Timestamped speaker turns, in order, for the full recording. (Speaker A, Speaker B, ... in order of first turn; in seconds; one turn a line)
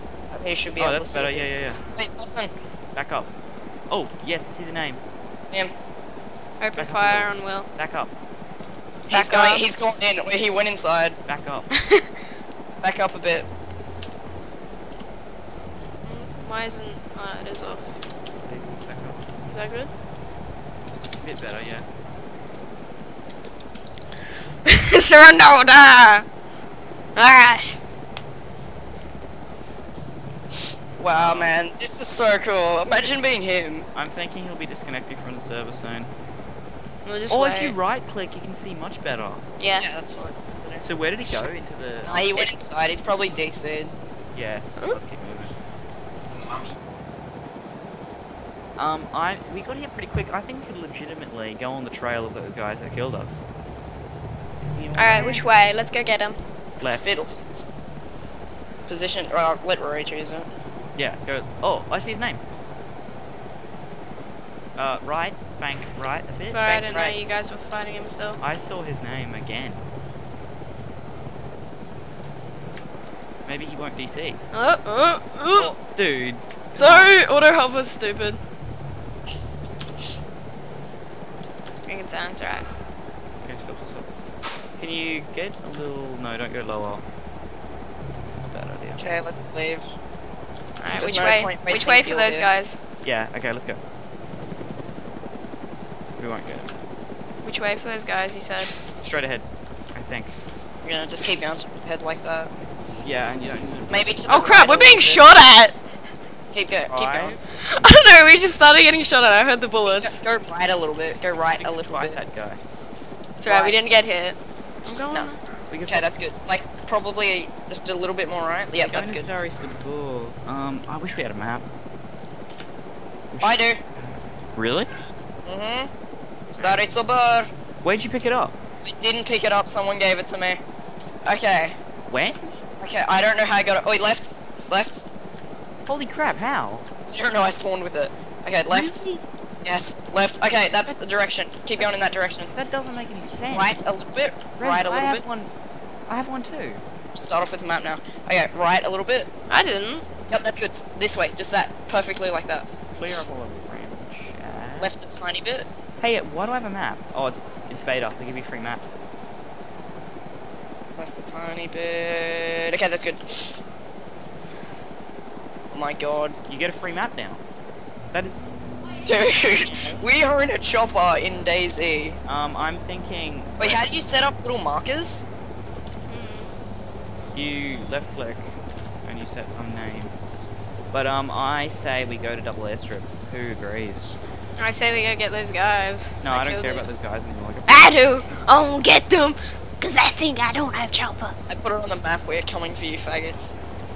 Speaker A: 0.3-2.5
Speaker B: 0.8-1.9
Speaker B: 3.0-3.3
Speaker B: 3.9-5.0
Speaker C: 6.6-7.7
Speaker B: 6.8-8.1
Speaker C: 9.1-9.7
Speaker A: 9.1-11.2
Speaker B: 11.2-11.7
Speaker C: 11.8-12.1
Speaker A: 12.8-13.5
Speaker C: 16.0-18.0
Speaker B: 18.4-19.2
Speaker C: 19.5-19.9
Speaker B: 21.2-21.9
Speaker C: 24.7-26.2
Speaker C: 27.2-27.8
Speaker A: 31.0-33.9
Speaker B: 31.1-31.6
Speaker B: 34.0-36.1
Speaker C: 37.0-37.8
Speaker B: 37.3-39.5
Speaker C: 39.6-39.9
Speaker A: 39.8-40.9
Speaker B: 40.8-42.3
Speaker A: 42.0-43.9
Speaker B: 44.3-45.6
Speaker B: 48.8-53.4
Speaker A: 54.6-55.5
Speaker C: 55.0-56.4
Speaker B: 56.8-57.1
Speaker A: 57.0-57.7
Speaker A: 58.9-60.5
Speaker B: 61.0-62.4
Speaker B: 64.8-66.7
Speaker C: 66.5-68.4
Speaker A: 66.6-67.2
Speaker B: 68.4-69.8
Speaker B: 73.5-74.4
Speaker C: 74.5-75.8
Speaker B: 75.6-77.2
Speaker C: 76.8-78.4
Speaker C: 81.8-82.7
Speaker B: 83.4-84.1
Speaker B: 84.8-87.0
Speaker B: 88.4-89.2
Speaker A: 89.0-90.0
Speaker C: 90.8-92.8
Speaker A: 90.9-92.5
Speaker B: 93.0-93.8
Speaker B: 96.2-96.8
Speaker C: 97.4-98.7
Speaker B: 99.0-100.3
Speaker A: 100.8-102.5
Speaker B: 103.0-104.1
Speaker A: 103.9-105.2
Speaker C: 104.3-105.8
Speaker A: 106.5-107.4
Speaker B: 106.9-107.4
Speaker C: 107.6-110.2
Speaker A: 109.8-112.2
Speaker B: 111.5-112.6
Speaker C: 113.4-115.4
Speaker A: 113.4-114.0
Speaker B: 115.7-116.1
Speaker A: 115.9-119.3
Speaker B: 118.8-121.7
Speaker B: 123.3-124.9
Speaker A: 123.4-123.8
Speaker A: 125.5-125.9
Speaker A: 126.5-127.5
Speaker B: 127.8-128.6
Speaker A: 128.8-130.6
Speaker A: 131.2-131.8
Speaker B: 132.1-132.5
Speaker A: 132.8-135.0
Speaker B: 135.9-136.9
Speaker A: 137.1-139.1
Speaker B: 138.7-139.2
Speaker A: 139.6-142.5
Speaker B: 142.5-143.8
Speaker A: 143.5-145.2
Speaker B: 144.6-145.5
Speaker B: 146.1-146.8
Speaker A: 147.2-149.3
Speaker C: 149.5-150.1
Speaker A: 150.3-152.7
Speaker B: 153.0-154.9
Speaker A: 154.8-155.7
Speaker B: 156.0-158.9
Speaker A: 161.0-163.6
Speaker A: 165.7-166.4
Speaker B: 166.5-167.4
Speaker B: 168.1-170.0
Speaker A: 169.0-172.2
Speaker B: 172.2-173.9
Speaker A: 173.6-175.2
Speaker C: 176.1-176.5
Speaker B: 177.3-178.5
Speaker B: 179.1-180.2
Speaker B: 180.9-184.2
Speaker C: 184.6-186.9
Speaker B: 186.2-188.0
Speaker C: 187.7-191.3
Speaker A: 191.5-193.6